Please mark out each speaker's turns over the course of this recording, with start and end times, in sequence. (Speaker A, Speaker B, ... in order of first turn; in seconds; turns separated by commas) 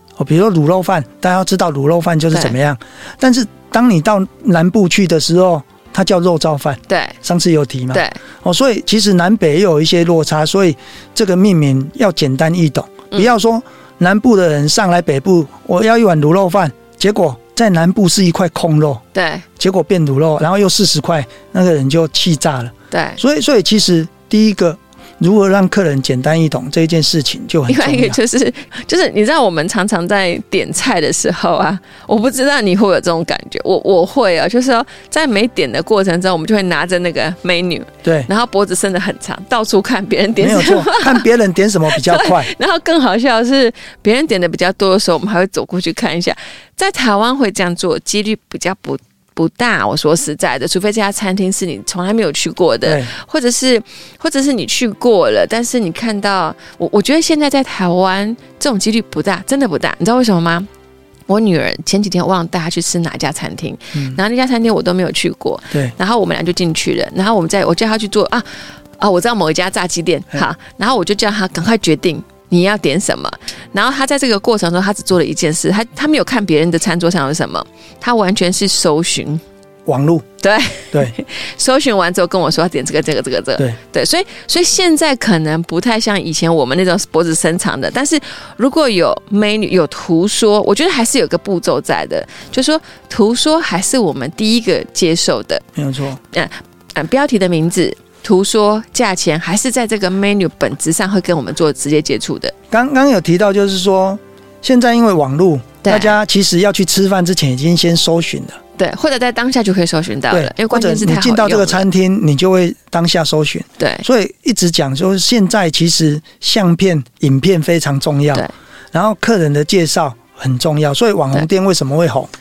Speaker A: 0.2-19.0, Speaker B: 6.9-7.2, Speaker B: 7.9-8.2, Speaker B: 19.1-19.4, Speaker A: 19.6-28.2, Speaker B: 22.9-23.2, Speaker B: 27.7-41.3, Speaker A: 38.0-38.3, Speaker A: 40.4-42.5, Speaker B: 41.9-60.7, Speaker A: 52.9-53.1, Speaker B: 61.3-68.5, Speaker A: 63.9-64.2, Speaker B: 69.0-79.4, Speaker A: 79.9-80.2, Speaker B: 80.4-95.6, Speaker A: 95.8-96.2, Speaker B: 96.3-102.5, Speaker A: 102.7-108.6, Speaker B: 105.8-106.2, Speaker B: 108.8-111.9, Speaker A: 110.3-122.3, Speaker B: 113.8-114.0